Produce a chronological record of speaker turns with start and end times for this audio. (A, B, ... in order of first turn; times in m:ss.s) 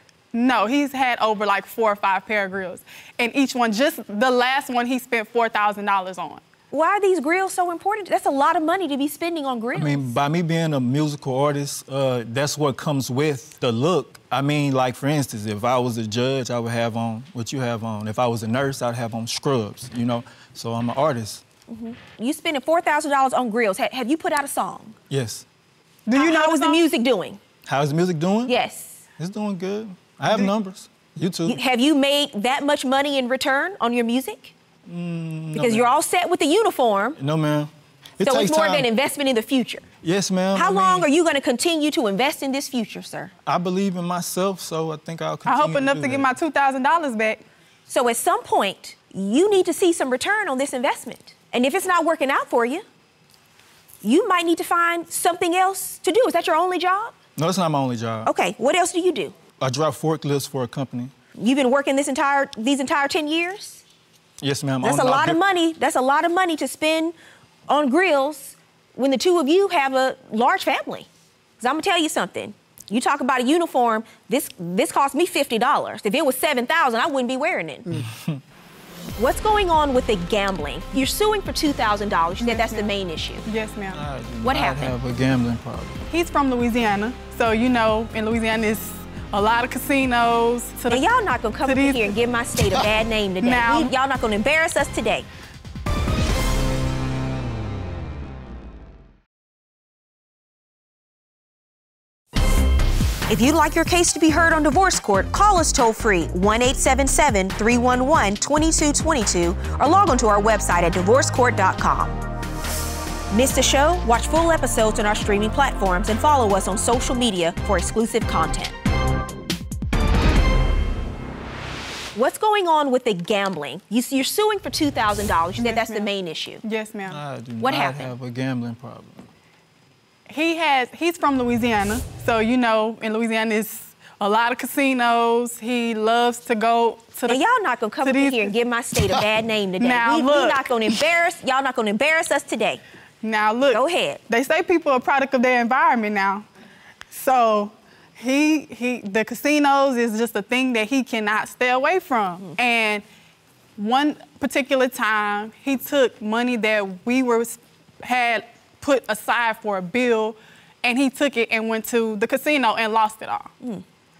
0:00.3-0:06.4 A
0:06.7-0:10.1 B
0:09.7-0:21.4 C
0:21.7-0:25.0 B
0:25.1-0:25.4 C
0:26.1-0:26.8 A
0:26.2-0:27.4 B
0:27.7-0:28.5 C
0:28.5-0:29.0 B
0:29.2-0:31.6 C
0:31.5-0:34.5 B
0:34.9-0:35.9 C
0:35.5-0:37.2 B
0:37.2-0:38.9 C
0:38.2-0:39.8 B
0:40.0-0:41.1 C
0:40.5-0:43.3 B
0:43.5-0:46.3 C
0:45.4-0:47.4 A
0:47.9-0:52.8 B
0:54.0-0:57.2 B
0:57.4-0:58.3 C
0:58.2-0:59.4 B
0:59.6-1:01.1 C
1:01.4-1:03.8 B
1:04.4-1:05.4 C
1:04.8-1:07.2 B
1:07.7-1:11.1 B
1:11.6-1:17.8 B
1:18.0-1:18.4 C
1:19.2-1:23.5 B
1:22.4-1:22.9 A
1:23.4-1:24.0 A
1:23.9-1:26.0 C
1:24.4-1:25.0 B
1:26.1-1:31.0 A
1:30.9-1:35.3 B
1:31.7-1:32.2 A
1:33.4-1:33.9 A
1:43.3-1:52.2 B
1:53.3-1:58.7 B
2:02.1-2:06.6 B
2:05.6-2:06.1 A
2:06.6-2:07.2 A
2:07.1-2:09.3 C
2:07.6-2:08.1 B
2:10.3-2:17.4 A
2:17.3-2:22.8 B
2:18.0-2:18.6 A
2:19.8-2:20.8 A
2:23.2-2:26.5 A
2:23.7-2:24.2 B
2:27.1-2:33.0 A
2:33.8-2:43.5 A